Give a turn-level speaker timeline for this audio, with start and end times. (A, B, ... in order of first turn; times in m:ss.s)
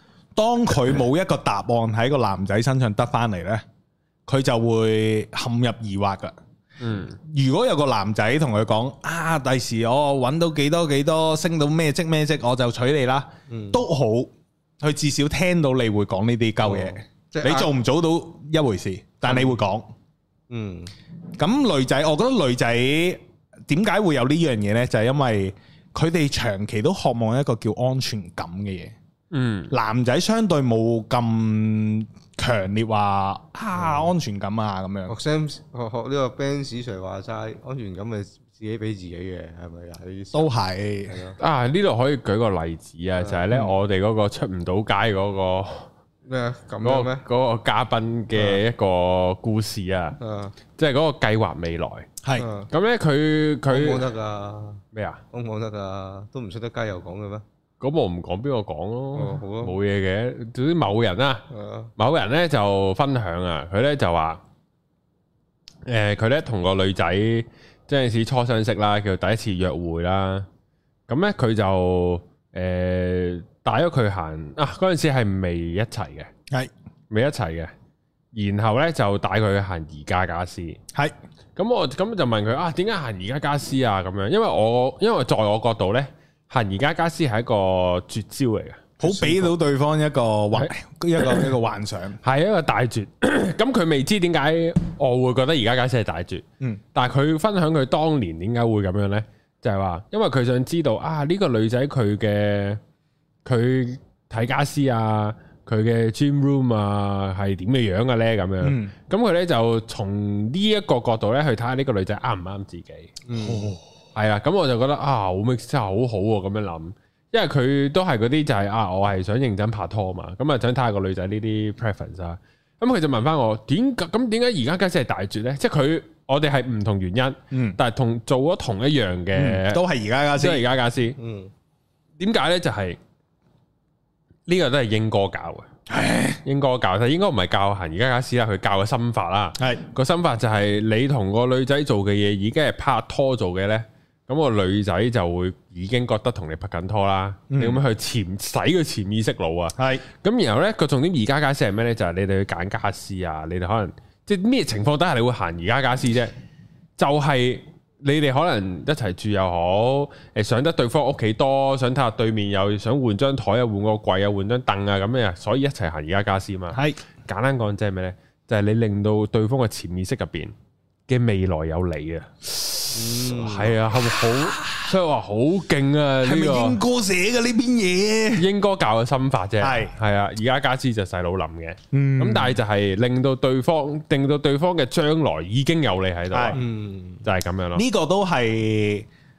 0:00.4-0:03.6 A
0:04.3-0:06.3 A
0:06.8-0:07.2 B
0:07.2-0:14.3 A
0:13.5-0:13.8 C
0:14.8-0:19.9 A
0:16.6-0:17.7 C
0:19.3-0:19.6 C
0:20.5-0:20.9 C
0:21.4-0:28.9 A
0:29.3-0:29.7 B
0:29.7-0:35.1 A
0:33.8-0:34.1 C
0:35.1-0:40.5 C
0:40.3-0:41.2 A
0:41.1-0:41.4 C
0:41.4-0:45.9 B
0:43.2-0:43.7 C
0:46.2-0:47.2 C
0:46.8-0:50.2 B
0:50.2-0:50.6 C
0:50.7-0:52.1 B
0:52.4-0:52.7 C
0:52.7-0:54.1 B
0:53.7-0:57.4 C
0:54.9-0:55.2 B
0:57.8-1:01.4 B
0:59.1-0:59.8 C
1:01.5-1:01.9 C
1:02.0-1:04.4 B
1:05.8-1:10.5 B
1:11.1-1:16.3 B
1:17.1-1:17.7 B
1:18.3-1:20.8 B
1:21.6-1:29.5 B
1:29.0-1:32.2 A
1:30.5-1:31.5 B
1:32.2-1:42.8 B
1:43.4-1:53.2 B
1:48.6-1:48.9 A
1:53.3-1:53.7 C
1:53.4-1:53.8 A
1:54.1-2:09.8 B
2:07.5-2:07.8 A
2:09.3-2:10.6 A
2:10.4-2:11.2 B
2:11.2-2:11.5 C
2:12.2-2:13.0 B
2:14.4-2:15.7 B
2:15.9-2:16.4 A
2:16.4-2:36.3 B
2:19.6-2:19.8 A
2:27.5-2:27.8 A
2:29.8-2:30.0 A
2:37.0-2:50.5 B
2:46.7-2:47.0 A
2:51.1-2:56.8 B
2:52.9-2:53.8 C
2:54.5-2:54.9 A
2:56.2-2:58.5 A
2:58.4-3:06.6 B
2:59.6-2:59.9 A
3:01.9-3:02.6 A
3:06.3-3:06.6 A
3:06.5-3:07.2 C
3:07.2-3:07.8 B
3:07.7-3:09.1 A